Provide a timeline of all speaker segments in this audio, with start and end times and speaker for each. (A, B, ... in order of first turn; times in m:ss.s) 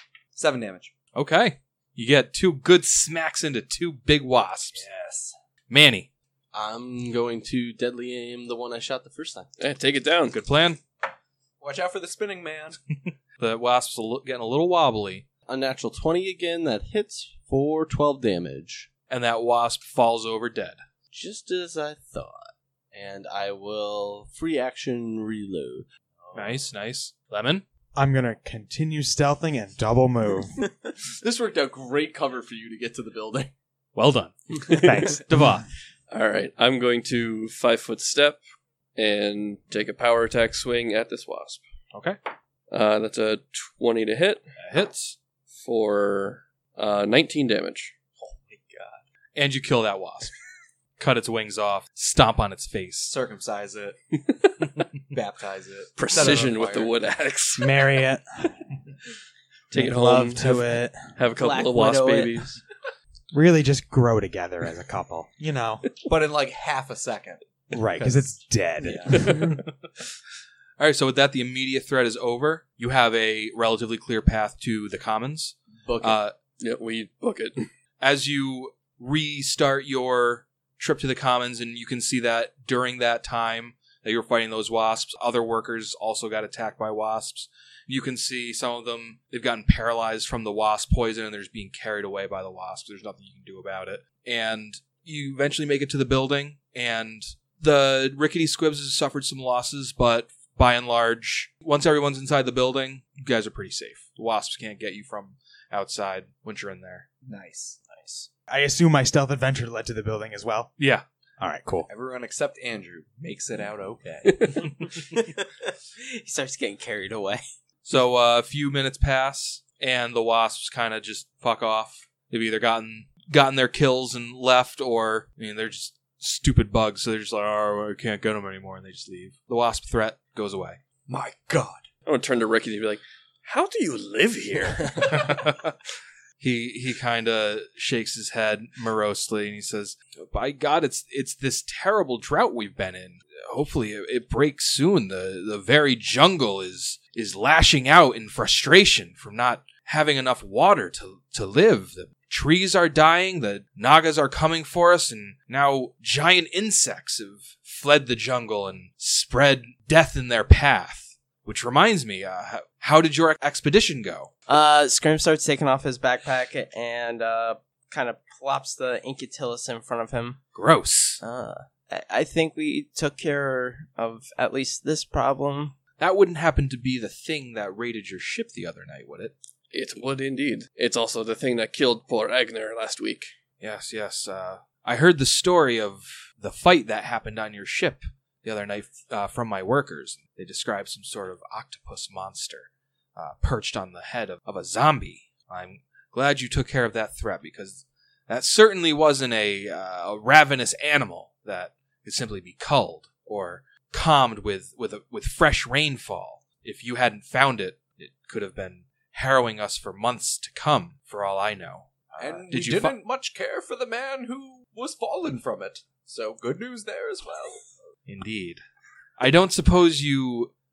0:00.3-0:00.9 A
0:01.1-0:04.8 B
0:04.7-0:05.4 A
0:05.7-0:06.1 B
0:06.5-0:09.5 C
0:09.6-0:10.4 D
0:10.3-0:10.8 B
0:11.6-0:12.8 A
0:12.9-0:15.2 B
0:15.5-0:18.9 C
0:19.1-0:20.8 B
0:21.1-0:26.7 C
0:26.3-0:27.6 B
0:27.9-0:30.6 E
0:31.0-0:33.5 C
0:33.9-0:35.6 B
0:34.8-0:35.6 E
0:36.1-0:38.4 D
0:39.0-0:41.6 D
0:42.7-0:44.4 D
0:44.6-0:45.2 B
0:45.6-0:47.9 D
0:48.2-0:49.0 A
0:49.4-0:50.3 B
0:51.0-0:53.1 B
0:53.1-0:54.0 A
0:55.1-0:56.9 A
0:56.0-0:57.8 D
0:57.6-0:58.6 E
0:59.7-1:02.6 D
0:59.7-1:01.1 E
1:01.4-1:02.5 F
1:03.3-1:05.9 E
1:06.0-1:09.2 A
1:07.7-1:09.6 E
1:10.8-1:16.4 B
1:15.9-1:16.2 C
1:16.6-1:17.7 D
1:18.0-1:47.1 B
1:47.2-1:47.8 A
1:47.9-1:48.3 F
1:48.5-1:50.7 E
1:50.8-1:51.0 B
1:51.4-1:51.9 E
1:51.9-1:54.6 A
1:55.0-1:57.4 F
1:57.8-2:10.8 B
2:11.1-2:11.8 A
2:12.1-2:15.4 D
2:15.1-2:15.7 B
2:16.4-2:44.3 B
2:44.5-2:50.4 F
2:50.5-2:51.2 B
2:51.2-2:55.8 F
2:56.0-2:59.3 B
2:59.7-3:03.3 D
3:03.6-3:33.0 B
3:32.2-3:37.7 A
3:38.1-3:38.6 B
3:39.2-3:40.5 B